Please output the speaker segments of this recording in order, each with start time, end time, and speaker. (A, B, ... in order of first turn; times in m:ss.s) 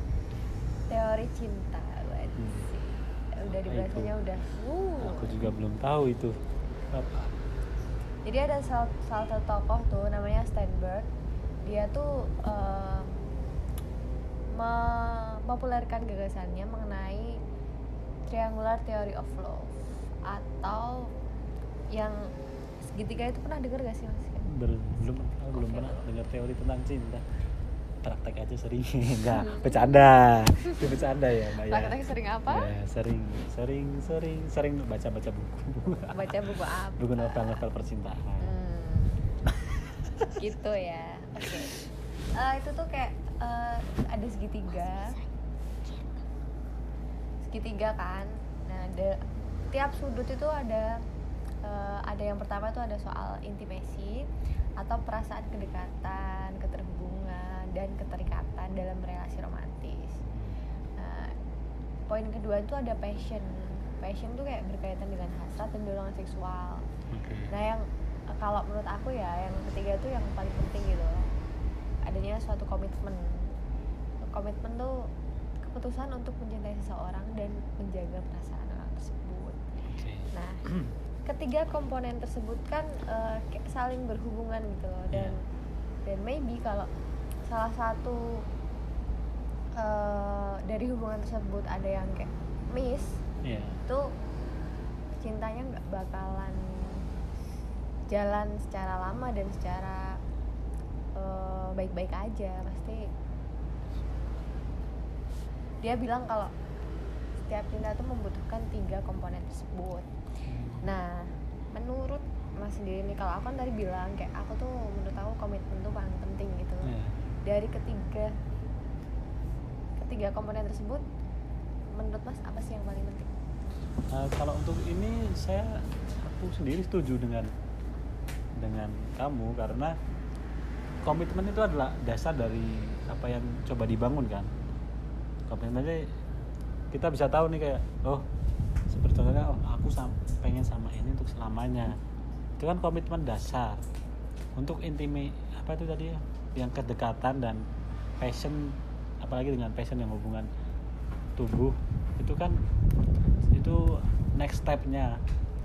0:00.9-0:05.5 A
0:02.4-0:02.7 B
0:03.5-0:04.1 B
0:05.0-0:06.4 B
0:06.9-0:07.3 B
0:08.2-0:11.1 A
0:11.6-0:13.2 A
0:14.5-0:17.4 A
0:18.3-0:19.7 A
0:20.3-0:21.1 A
0:21.9-0:22.3 A
0:22.8-0:24.4 A
0:24.4-0:27.2 B
0:25.5-0:26.0 A
0:28.0-0:32.0 B
0:29.3-0:30.0 A
0:31.6-0:32.7 A
0:32.5-0:38.6 B
0:36.1-0:37.5 A
0:38.4-0:39.2 A
0:40.0-0:40.4 B
0:40.4-0:41.8 A
0:42.4-0:45.2 A
0:47.5-0:49.2 A
0:49.7-0:51.0 A
0:51.6-0:54.3 A
0:54.8-1:00.2 A
1:01.0-1:01.3 A
1:02.1-1:06.9 A
1:07.1-1:07.5 B
1:07.5-1:11.3 A
1:12.1-1:13.5 A
1:14.3-1:15.1 A
1:15.6-1:19.7 A
1:19.9-1:20.9 B
1:20.3-1:20.6 A
1:21.3-1:25.4 A
1:26.0-1:26.9 A
1:27.5-1:28.4 A
1:29.8-1:33.2 A
1:33.4-1:33.8 B
1:35.2-1:37.1 A
1:38.1-1:40.2 A
1:41.2-1:43.1 A
1:45.8-1:46.5 A
1:47.4-1:50.1 A
1:50.5-1:50.9 B
1:50.8-1:56.9 A
1:56.8-1:57.2 B
1:57.4-1:58.3 A
2:00.0-2:01.0 A
2:01.9-2:03.3 A
2:04.1-2:07.5 B
2:08.6-2:10.0 B
2:11.0-2:14.5 B
2:15.5-2:16.1 B
2:16.9-2:18.3 B
2:18.9-2:22.0 B
2:22.6-2:23.8 B
2:24.6-2:27.7 B
2:28.2-2:30.5 B
2:31.4-2:32.6 B
2:33.5-2:35.2 B